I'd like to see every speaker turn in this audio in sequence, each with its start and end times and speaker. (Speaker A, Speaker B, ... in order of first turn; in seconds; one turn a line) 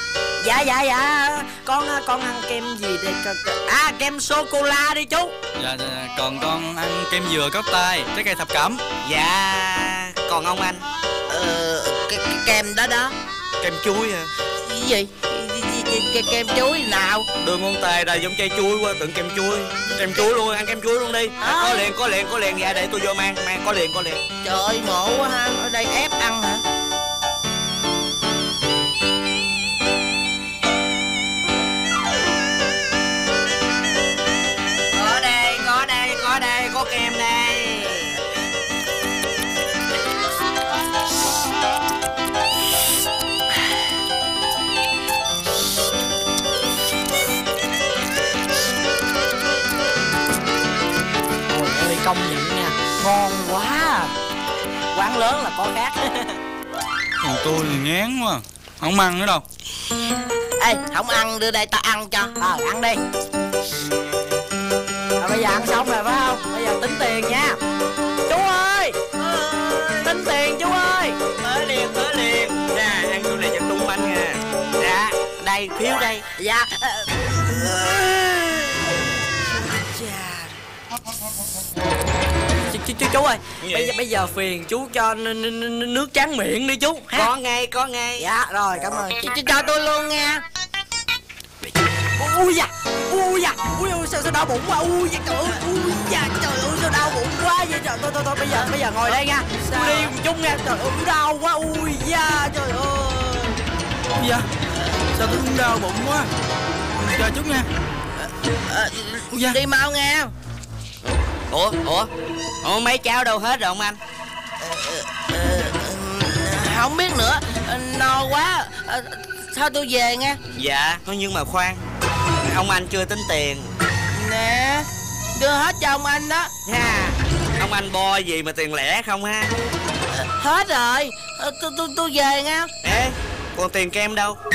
Speaker A: 0.4-5.3
Speaker B: 5.6-8.8
Speaker C: 9.0-10.8
Speaker D: 11.3-13.1
Speaker C: 13.6-14.3
Speaker D: 14.6-17.3
Speaker C: 17.4-24.2
Speaker D: 21.4-21.9
Speaker D: 24.4-26.6
Speaker C: 35.0-38.1
Speaker A: 51.5-54.1
Speaker A: 54.9-56.4
Speaker B: 57.2-59.4
Speaker D: 60.6-62.3
Speaker A: 62.4-63.0
Speaker A: 65.2-67.6
Speaker A: 68.3-69.0
Speaker C: 69.2-70.0
Speaker A: 70.0-71.2
Speaker C: 71.3-76.3
Speaker A: 76.4-77.1
Speaker D: 79.6-80.5
Speaker A: 82.7-87.3
Speaker C: 83.6-83.9
Speaker C: 87.1-88.2
Speaker A: 88.2-89.2
Speaker D: 89.2-90.4
Speaker A: 92.2-96.2
Speaker D: 95.8-97.2
Speaker A: 96.8-103.3
Speaker D: 98.4-100.2
Speaker D: 103.0-103.2
Speaker B: 104.2-104.5
Speaker B: 105.1-106.3
Speaker B: 107.0-107.7
Speaker D: 108.7-110.3
Speaker B: 109.3-109.6
Speaker C: 111.5-112.1
Speaker C: 112.6-114.0
Speaker D: 114.6-120.4
Speaker C: 120.5-121.8
Speaker C: 122.4-123.7
Speaker D: 124.1-127.2
Speaker C: 127.6-129.5
Speaker D: 130.3-132.7
Speaker C: 132.8-134.4